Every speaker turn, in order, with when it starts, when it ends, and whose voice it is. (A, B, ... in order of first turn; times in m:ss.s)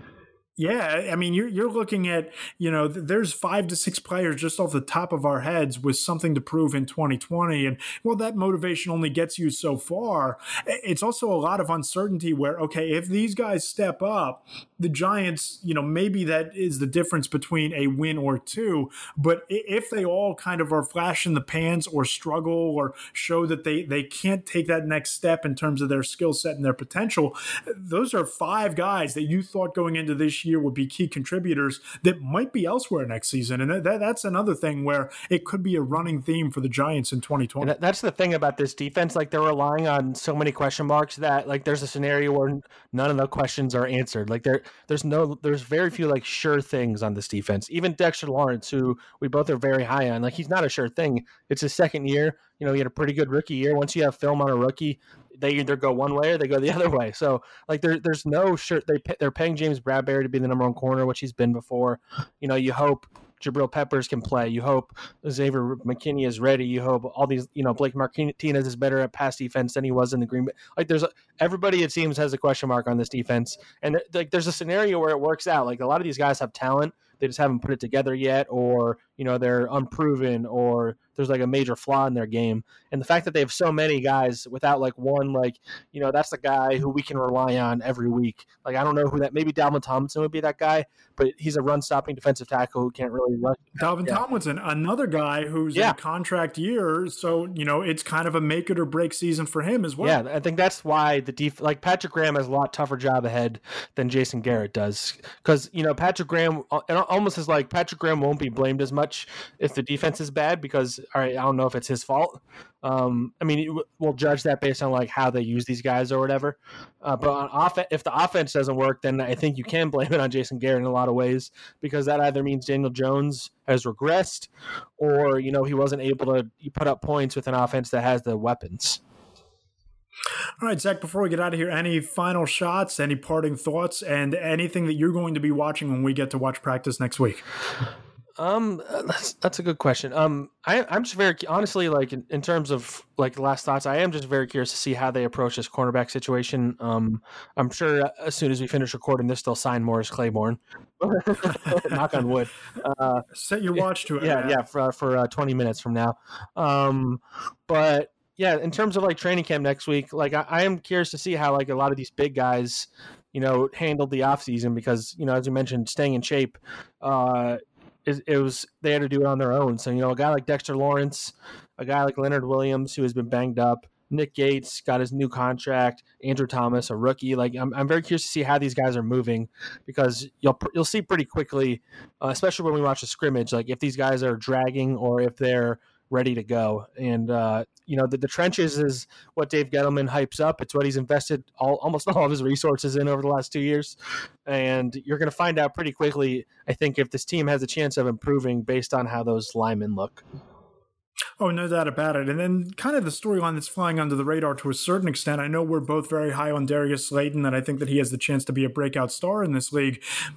0:00.6-0:37.7 A
0:37.6-1:34.2 B
1:33.8-1:40.2 A
1:40.0-2:09.0 B
2:10.6-2:17.4 A
2:18.4-2:33.2 B
2:33.3-2:34.6 A
2:34.2-3:20.2 B
3:21.4-3:30.1 A